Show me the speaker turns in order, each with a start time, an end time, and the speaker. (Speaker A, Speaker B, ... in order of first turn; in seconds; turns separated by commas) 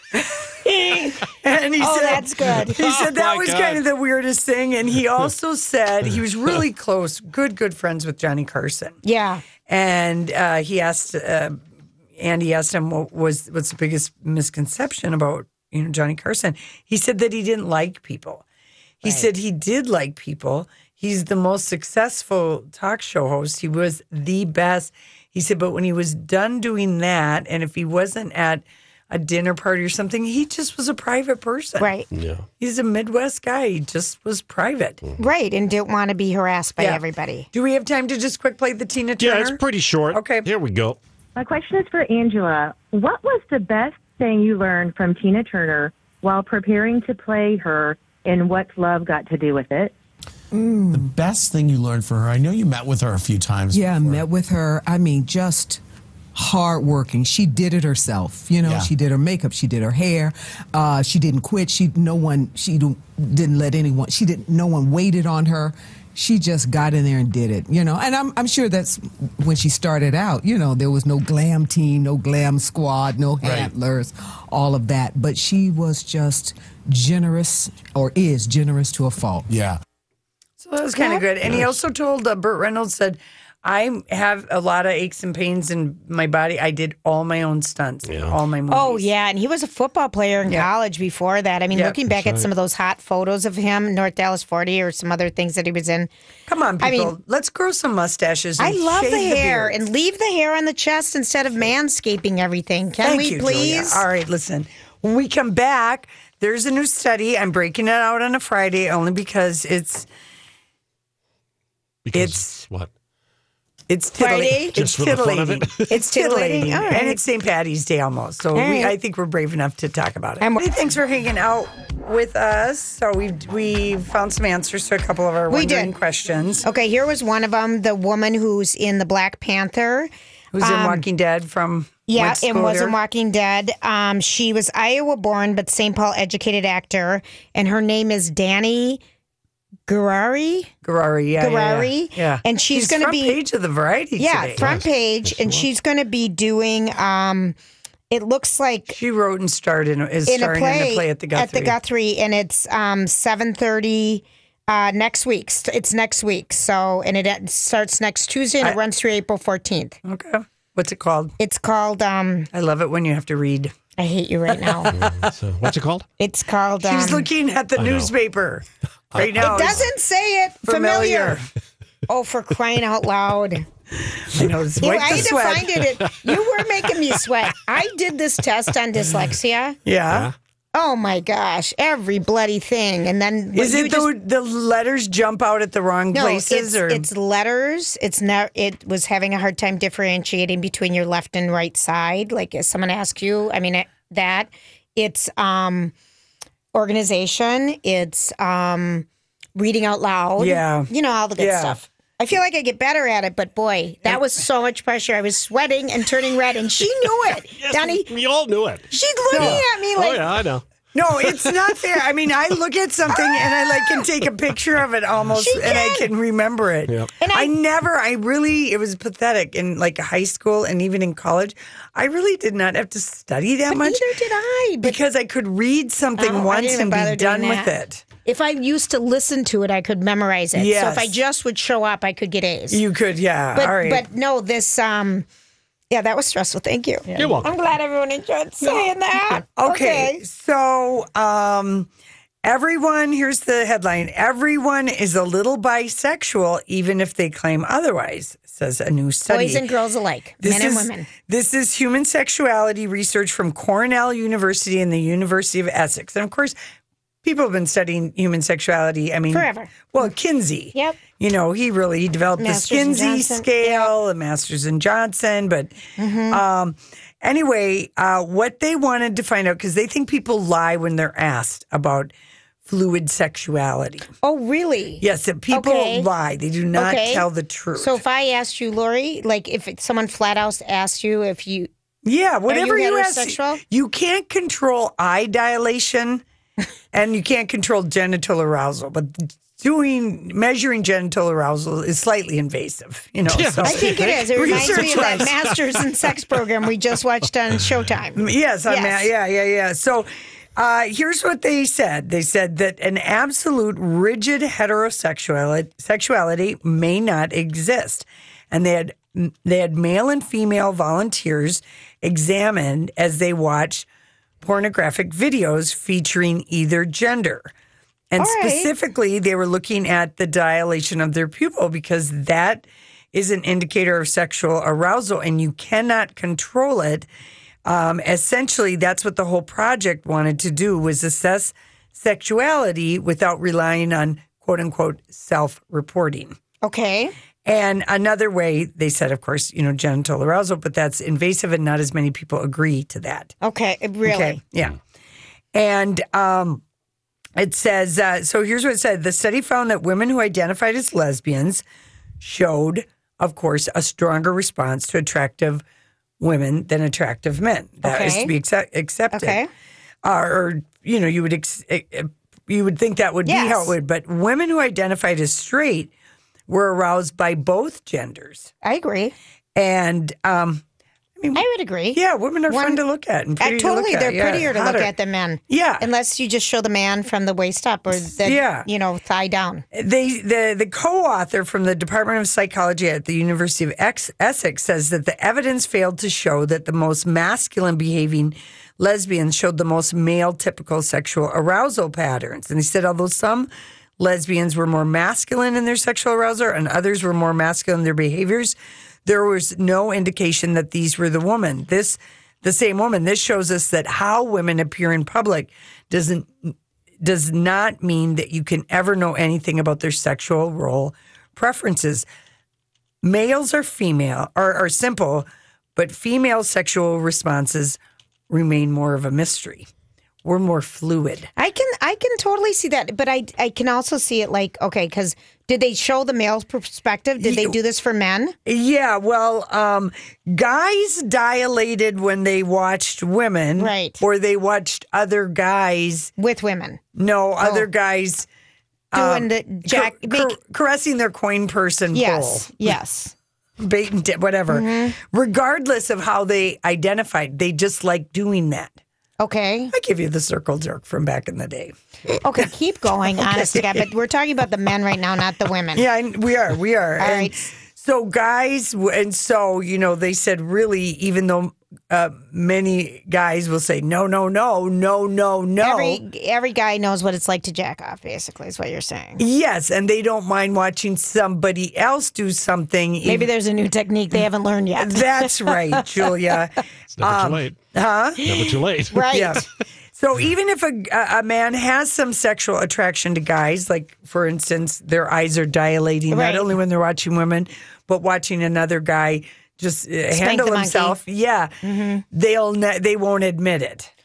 Speaker A: 0.6-1.2, Speaker B: 1.4-9.0, Speaker A: 1.8-2.8, Speaker C: 2.7-3.8, Speaker A: 9.0-9.4, Speaker B: 9.7-11.6, Speaker B: 12.2-18.4, Speaker B: 19.0-31.9, Speaker A: 31.8-32.1, Speaker C: 32.1-32.4, Speaker B: 32.6-35.0, Speaker A: 35.2-37.5, Speaker B: 36.8-39.6, Speaker C: 39.2-41.0, Speaker B: 40.1-40.5, Speaker D: 41.4-49.9, Speaker E: 50.5-51.1, Speaker F: 50.9-54.2, Speaker E: 53.7-55.8, Speaker E: 56.3-79.5, Speaker F: 58.6-58.9, Speaker F: 73.4-73.7, Speaker F: 79.5-79.8, Speaker B: 80.6-89.1, Speaker A: 81.0-81.2, Speaker C: 81.5-81.8, Speaker C: 88.0-88.4, Speaker A: 88.7-96.1, Speaker C: 92.0-92.5, Speaker B: 96.5-99.8, Speaker A: 96.8-97.1, Speaker A: 98.6-104.0, Speaker B: 103.0-110.1, Speaker C: 112.0-112.9, Speaker B: 112.1-112.6, Speaker B: 113.9-126.6, Speaker A: 114.2-114.8, Speaker C: 114.7-115.9, Speaker A: 115.9-117.2, Speaker A: 118.5-119.0, Speaker A: 120.4-120.7, Speaker A: 125.5-125.9, Speaker A: 126.6-131.1, Speaker B: 130.5-132.9, Speaker A: 132.1-139.0, Speaker A: 139.9-140.7, Speaker B: 140.8-144.7, Speaker A: 141.4-143.4, Speaker A: 144.2-147.6, Speaker C: 144.6-145.7, Speaker A: 148.1-149.0, Speaker B: 148.9-151.8, Speaker A: 150.2-160.0, Speaker B: 160.0-161.3, Speaker A: 161.4-162.5, Speaker B: 162.5-163.7, Speaker A: 164.0-164.9, Speaker C: 164.9-166.1, Speaker A: 166.2-167.3, Speaker B: 166.8-168.6, Speaker C: 167.8-168.1, Speaker C: 169.1-169.9, Speaker B: 169.2-169.9, Speaker A: 169.2-171.4, Speaker B: 170.7-171.4, Speaker A: 172.1-173.7, Speaker B: 174.1-175.8, Speaker A: 174.8-179.8, Speaker B: 179.8-180.3, Speaker A: 180.7-184.1, Speaker B: 183.5-187.1, Speaker A: 186.1-195.9, Speaker A: 196.7-208.1, Speaker B: 200.4-201.8, Speaker C: 207.6-210.6, Speaker A: 208.9-210.3, Speaker B: 209.3-209.6, Speaker B: 210.9-224.0, Speaker C: 211.2-211.5, Speaker A: 213.1-214.0, Speaker A: 215.3-216.1, Speaker A: 217.2-217.5, Speaker A: 223.7-225.0, Speaker B: 224.8-228.0, Speaker A: 226.2-227.7, Speaker A: 228.2-232.8, Speaker B: 230.5-231.1, Speaker B: 232.7-234.0, Speaker A: 233.5-235.2, Speaker A: 235.9-240.2, Speaker B: 237.1-237.4, Speaker C: 237.1-237.5, Speaker B: 239.5-241.9, Speaker B: 242.4-249.6, Speaker A: 249.3-251.1, Speaker B: 250.4-256.6, Speaker B: 257.2-265.7, Speaker A: 259.3-259.9, Speaker A: 260.7-261.0, Speaker A: 262.4-263.9, Speaker A: 266.0-266.4, Speaker B: 266.3-272.1, Speaker B: 272.6-274.1, Speaker A: 274.2-276.1, Speaker B: 275.0-278.0, Speaker A: 276.7-281.7, Speaker B: 282.0-286.2, Speaker A: 282.5-283.6, Speaker B: 286.9-295.3, Speaker C: 293.2-295.6, Speaker A: 293.6-299.1, Speaker B: 298.1-313.9, Speaker B: 314.4-317.5, Speaker B: 318.1-327.1, Speaker A: 318.2-318.7, Speaker B: 327.6-336.4, Speaker A: 336.6-337.1, Speaker B: 337.4-343.3, Speaker A: 343.4-344.4, Speaker B: 344.0-344.8, Speaker B: 345.5-346.6, Speaker B: 347.4-351.6, Speaker B: 352.2-355.6, Speaker B: 356.2-359.4, Speaker A: 357.8-358.3, Speaker A: 359.1-359.5, Speaker B: 360.0-365.9, Speaker A: 363.2-363.7, Speaker B: 366.5-368.5, Speaker A: 368.6-369.1, Speaker B: 369.6-370.6, Speaker A: 371.3-372.8, Speaker B: 371.9-374.9, Speaker A: 373.4-379.6, Speaker B: 375.5-375.9, Speaker B: 378.2-378.7, Speaker B: 379.7-406.5, Speaker B: 407.0-412.1, Speaker B: 413.0-417.8, Speaker B: 418.3-419.7, Speaker B: 420.2-421.3, Speaker A: 421.4-428.3, Speaker B: 427.2-427.5, Speaker B: 428.4-436.1, Speaker A: 433.6-434.0, Speaker A: 436.2-436.8, Speaker B: 436.9-438.2, Speaker B: 438.9-442.5, Speaker A: 438.9-440.4, Speaker A: 441.9-443.1, Speaker B: 443.6-448.8, Speaker A: 444.5-444.9, Speaker A: 449.2-449.7, Speaker B: 449.7-451.7, Speaker A: 452.2-455.8, Speaker B: 455.7-466.0, Speaker A: 457.0-457.4, Speaker A: 465.6-469.2, Speaker B: 469.2-473.3, Speaker A: 473.0-476.1, Speaker B: 474.8-478.2, Speaker C: 476.9-477.6, Speaker C: 478.2-479.1, Speaker A: 478.2-479.4, Speaker B: 479.1-479.4, Speaker B: 479.9-491.5, Speaker A: 486.1-486.5, Speaker A: 490.1-491.0, Speaker A: 491.6-492.0, Speaker B: 492.1-493.9